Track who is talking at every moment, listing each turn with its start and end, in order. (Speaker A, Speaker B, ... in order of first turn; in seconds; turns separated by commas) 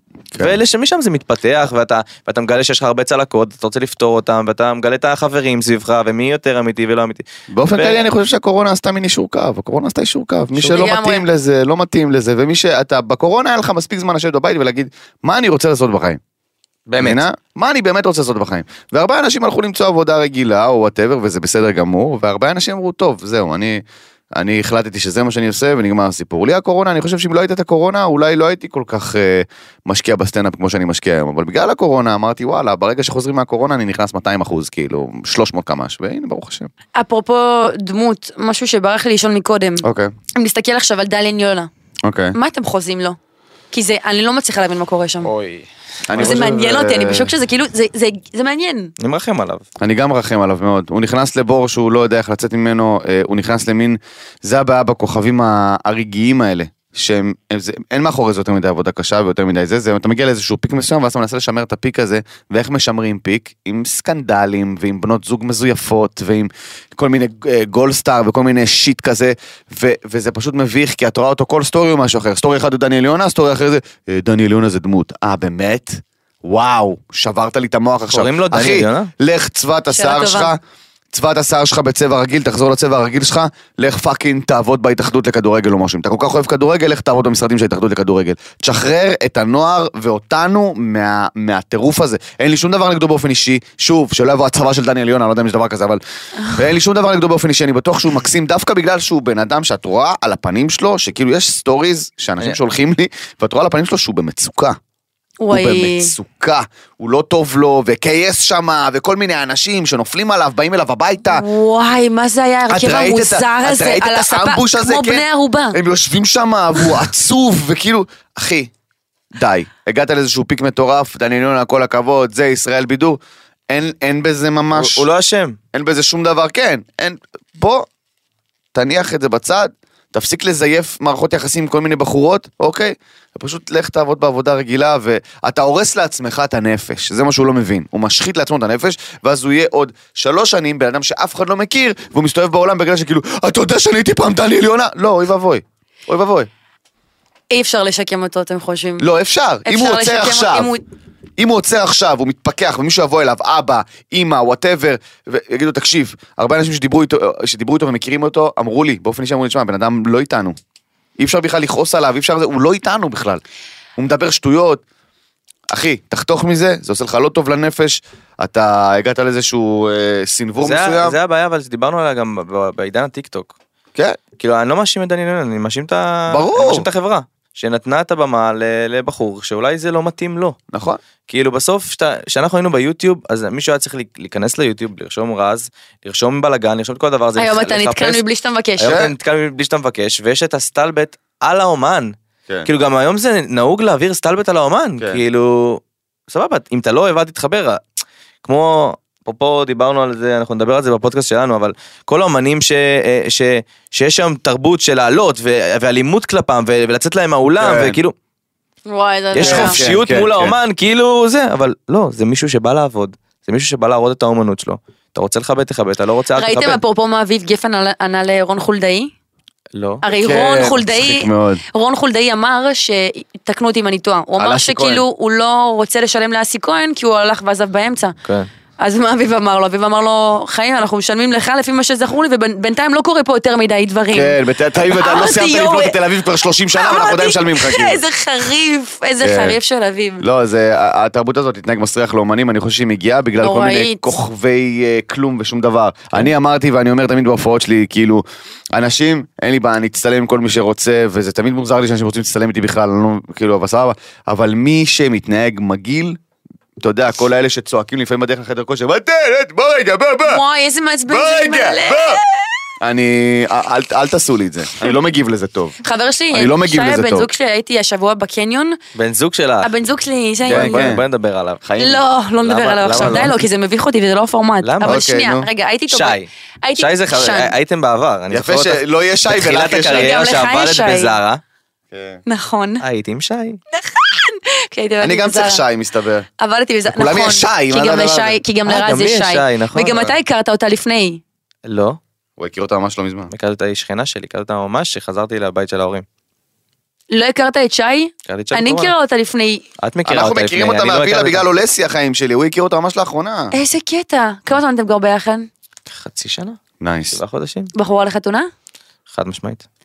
Speaker A: 0.4-8.1, Speaker B: 7.5-16.2, Speaker A: 10.6-10.8, Speaker C: 10.7-11.3, Speaker A: 16.9-17.2, Speaker B: 17.0-23.8, Speaker B: 24.4-36.7, Speaker C: 37.0-41.7, Speaker B: 39.8-40.1, Speaker B: 42.0-42.4, Speaker C: 42.3-43.2, Speaker C: 43.7-45.3, Speaker A: 45.2-46.5, Speaker B: 46.1-47.3, Speaker C: 46.2-48.9, Speaker A: 49.0-49.6, Speaker B: 49.8-80.6, Speaker A: 78.1-79.1, Speaker C: 79.9-80.5, Speaker B: 81.1-104.8, Speaker C: 105.4-106.1, Speaker B: 105.5-111.4, Speaker C: 111.3-115.8, Speaker B: 112.7-118.7, Speaker B: 119.3-125.1, Speaker A: 124.7-125.6, Speaker B: 125.7-127.9, Speaker B: 128.7-146.5, Speaker C: 147.5-149.1, Speaker B: 149.0-150.7, Speaker C: 149.7-150.8, Speaker B: 151.4-160.6, Speaker B: 161.2-163.4, Speaker B: 164.0-164.8, Speaker B: 165.7-171.2, Speaker A: 170.6-173.5, Speaker B: 173.9-174.2, Speaker A: 174.4-180.6, Speaker B: 176.3-176.9, Speaker B: 180.7-181.0, Speaker A: 181.3-188.2, Speaker C: 187.4-188.9, Speaker A: 188.8-197.8, Speaker B: 188.8-189.1, Speaker A: 198.4-208.1, Speaker B: 207.6-208.0, Speaker C: 208.9-209.8, Speaker A: 209.3-216.8, Speaker B: 209.4-210.6, Speaker C: 216.4-219.1, Speaker A: 219.7-220.0, Speaker C: 220.0-228.2, Speaker B: 220.1-221.6, Speaker B: 224.4-225.0, Speaker C: 228.8-236.0, Speaker B: 234.1-238.0, Speaker C: 236.7-240.2, Speaker B: 239.2-239.6, Speaker B: 240.2-256.2, Speaker C: 243.4-244.1, Speaker B: 256.8-260.4, Speaker C: 260.2-262.4, Speaker B: 261.1-262.2, Speaker B: 262.8-265.8, Speaker C: 265.8-268.8, Speaker B: 266.3-267.3, Speaker A: 268.9-269.7, Speaker C: 269.6-270.9, Speaker A: 270.5-271.8, Speaker B: 270.5-271.0, Speaker B: 271.7-272.0, Speaker C: 271.8-277.5, Speaker A: 272.4-273.4, Speaker A: 274.6-275.1, Speaker B: 274.8-275.5, Speaker A: 275.9-281.4, Speaker B: 278.3-280.2, Speaker C: 280.0-281.1, Speaker B: 281.9-282.2, Speaker C: 282.3-282.8, Speaker A: 282.8-283.6, Speaker C: 283.7-285.6, Speaker B: 285.0-286.3, Speaker C: 286.4-291.2, Speaker B: 286.9-288.4, Speaker A: 288.7-290.1, Speaker A: 291.7-292.0, Speaker B: 292.4-293.3, Speaker A: 293.3-296.1, Speaker C: 297.1-299.6, Speaker A: 298.3-298.9, Speaker A: 299.8-301.4, Speaker B: 300.1-303.5, Speaker C: 303.5-305.5, Speaker A: 305.9-306.6, Speaker B: 306.8-307.2, Speaker A: 307.1-307.7, Speaker C: 307.7-308.5, Speaker A: 309.1-309.6